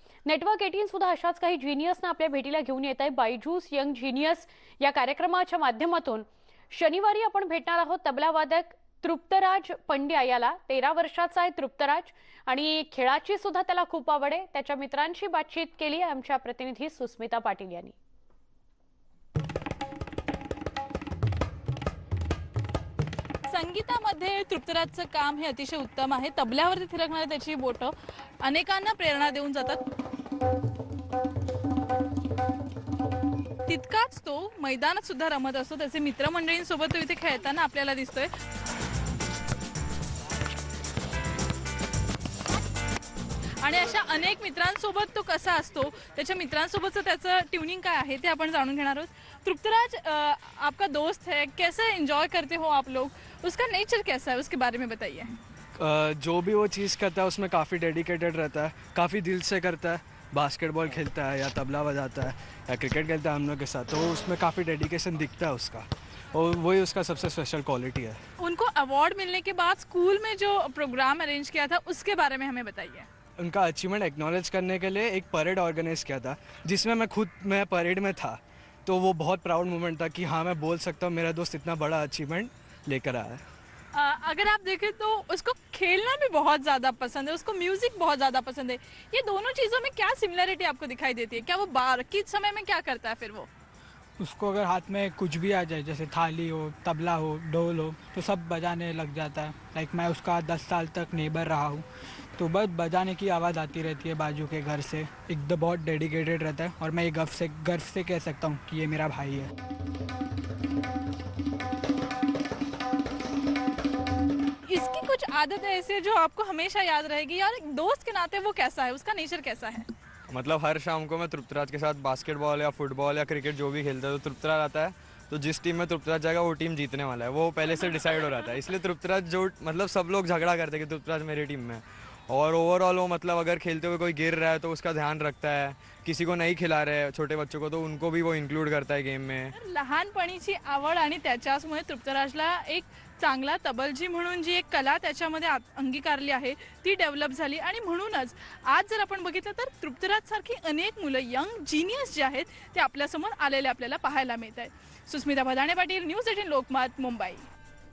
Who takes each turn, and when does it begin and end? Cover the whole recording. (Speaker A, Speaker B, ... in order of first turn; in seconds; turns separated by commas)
Speaker A: 0.2-17.9, Speaker B: 23.5-29.8, Speaker B: 33.7-38.3, Speaker B: 43.6-55.3, Speaker C: 55.8-68.2, Speaker B: 68.4-73.1, Speaker C: 73.4-83.4, Speaker B: 83.9-93.5, Speaker D: 94.2-109.5, Speaker B: 114.7-119.9, Speaker E: 120.3-139.5, Speaker B: 127.6-128.6, Speaker B: 139.6-157.5